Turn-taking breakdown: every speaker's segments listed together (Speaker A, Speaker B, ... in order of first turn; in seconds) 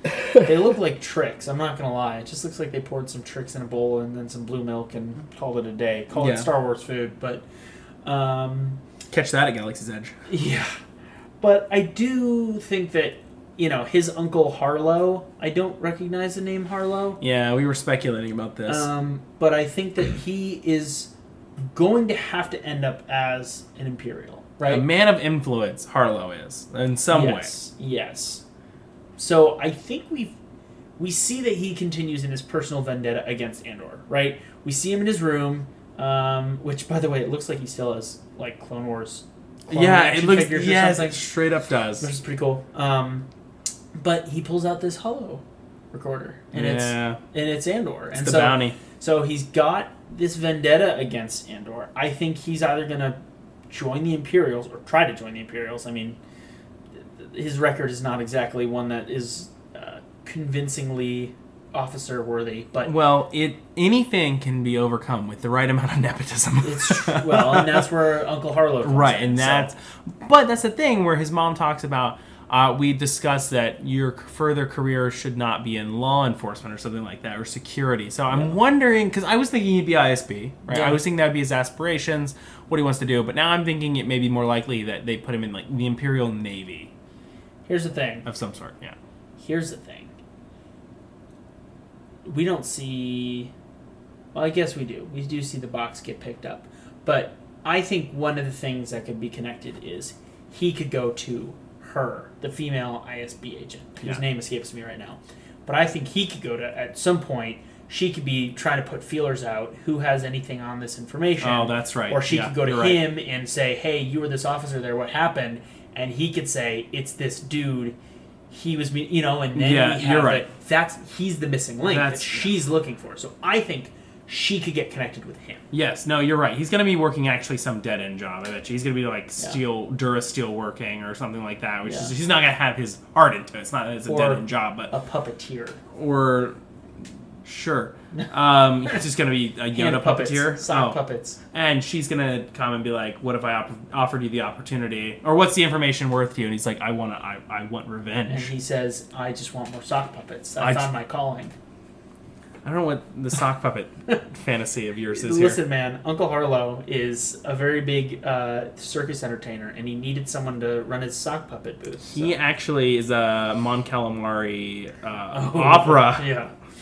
Speaker A: 0.4-7.4, 8.0-8.8, 10.3-10.8, 11.4-17.2, 18.6-21.1, 21.7-24.9, 27.1-28.4, 29.2-30.4, 31.0-41.2, 42.0-43.3, 43.9-53.2, 53.7-56.2, 57.1-62.9, 66.6-69.7, 80.7-81.0, 87.7-88.2, 89.4-90.1, 92.2-93.5, 94.3-118.0, 118.5-125.6, 131.8-132.1, 134.1-135.8, 139.7-141.4, 148.3-151.5, 155.1-162.4, 165.3-166.5
Speaker B: 6.1-6.5, 9.1-10.1, 17.2-18.9, 24.6-27.5, 39.7-42.1, 46.5-47.2, 48.1-48.8, 62.8-67.9, 68.8-86.9, 88.2-89.0, 111.4-113.0, 119.5-120.4, 121.8-122.5, 125.7-134.9, 135.9-136.6, 137.4-141.0, 141.5-148.5, 150.6-150.9, 152.6-155.6, 162.1-166.4